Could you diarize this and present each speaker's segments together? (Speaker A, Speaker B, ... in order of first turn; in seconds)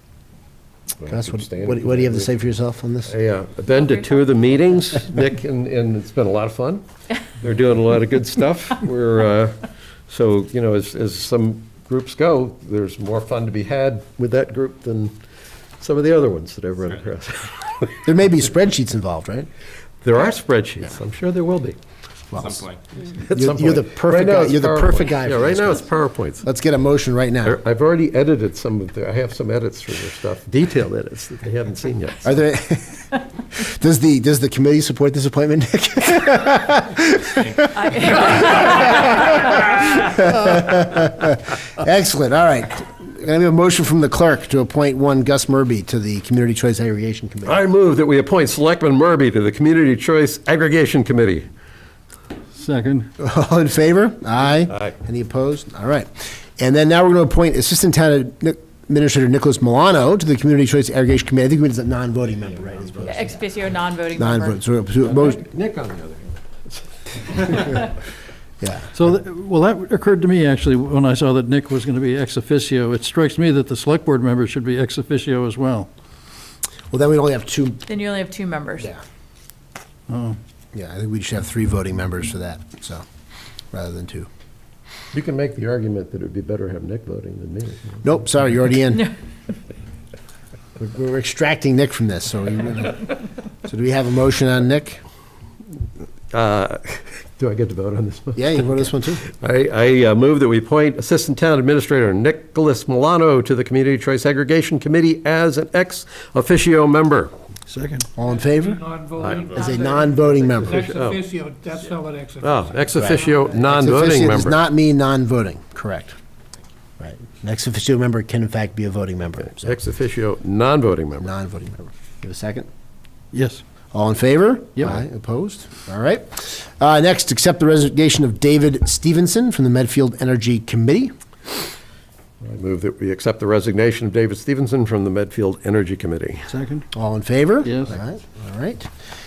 Speaker A: 1.0-2.4, 3.0-6.8, 7.4-15.2, 15.8-18.2, 20.0-21.8, 22.9-26.4, 27.4-32.3, 47.5-51.5, 54.6-55.0, 65.0-67.9, 85.1-88.1, 96.3-107.3, 109.2-109.7, 110.6-111.2, 112.4-114.6, 119.4-121.3, 132.4-136.4
Speaker B: 1.1-3.1, 18.1-19.5, 22.3-22.7, 23.3-25.8, 26.4-27.6, 32.2-47.6, 53.2-63.4, 64.2-65.4, 68.6-68.9, 76.9-77.8, 80.7-83.0, 83.7-84.3, 88.0-89.1, 90.8-93.1, 93.7-95.0, 98.4-99.2, 108.2-108.8, 109.5-110.8, 113.0-116.2, 117.0-119.8, 121.2-122.7, 123.9-131.1, 136.9-138.9
Speaker C: 37.8-39.0, 63.1-64.6, 77.9-79.0
Speaker D: 52.5-53.1, 68.9-75.9, 80.1-80.4, 107.7-108.1, 123.3-123.6, 136.5-136.9, 137.7-138.0
Speaker E: 108.2-113.5